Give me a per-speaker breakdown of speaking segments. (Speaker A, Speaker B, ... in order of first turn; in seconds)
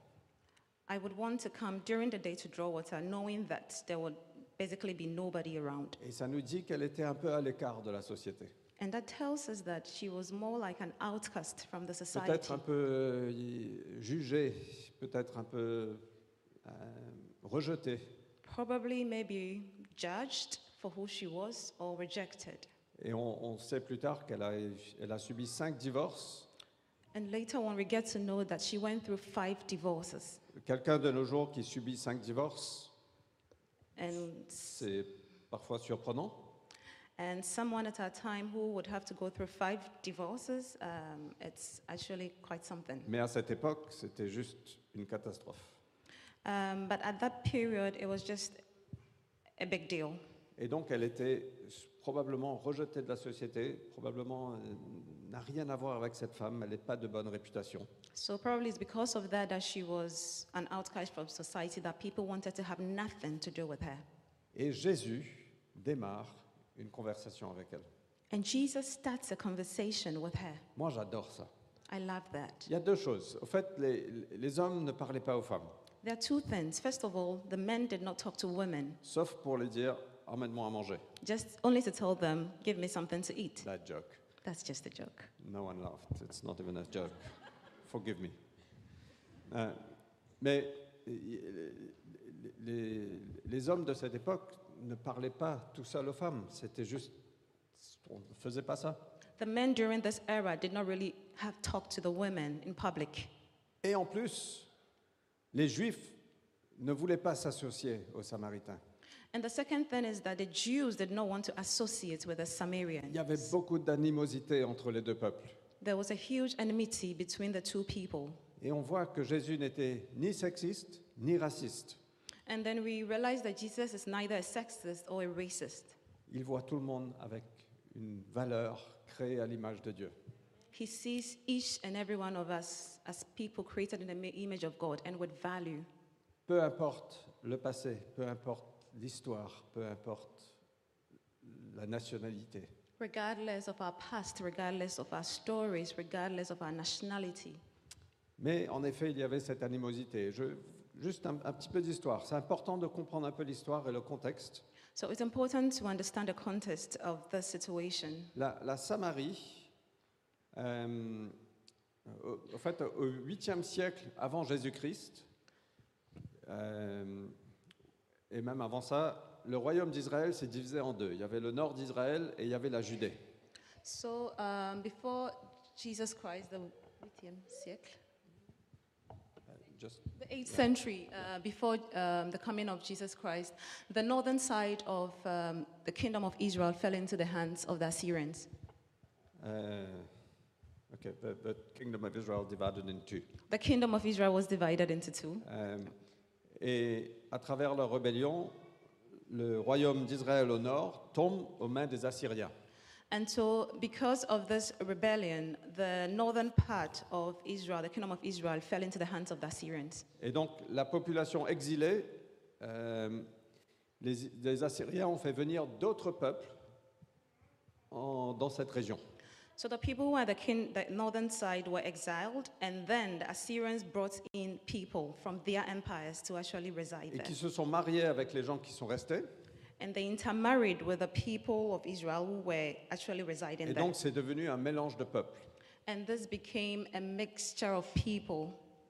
Speaker A: 0.9-6.0, 8.8-12.6, 18.4-22.7, 27.1-30.4, 34.0-34.9, 37.2-43.1, 46.5-48.6, 49.6-50.2, 58.1-64.0, 68.3-70.7, 71.9-72.7, 76.0-79.0, 81.2-83.7, 84.4-85.3, 99.4-103.3, 109.3-113.5, 115.8-118.4, 122.5-126.0, 130.7-135.9, 143.0-147.6, 155.0-158.3, 173.8-178.0, 180.2-188.5, 193.5-195.4, 203.1-210.1, 219.6-227.3, 229.8-233.9, 235.9-238.6
Speaker B: 6.0-8.5, 12.1-16.0, 16.6-18.1, 23.0-26.5, 30.5-32.9, 34.7-36.5, 43.1-45.8, 50.6-57.9, 64.5-67.9, 70.8-71.5, 72.7-75.7, 79.0-81.1, 83.6-84.2, 85.4-88.4, 89.5-89.8, 90.4-97.2, 97.8-99.0, 103.8-104.7, 105.5-106.2, 106.8-108.8, 113.1-115.6, 118.6-122.0, 126.3-130.1, 136.5-140.6, 141.4-142.7, 148.4-154.6, 158.3-159.7, 160.5-161.3, 162.1-165.3, 166.4-167.3, 168.3-173.2, 179.5-180.6, 189.4-190.1, 190.9-193.3, 195.4-195.9, 196.6-198.6, 199.3-202.5, 210.2-213.3, 214.0-216.6, 217.9-219.0, 227.1-229.3, 233.7-235.5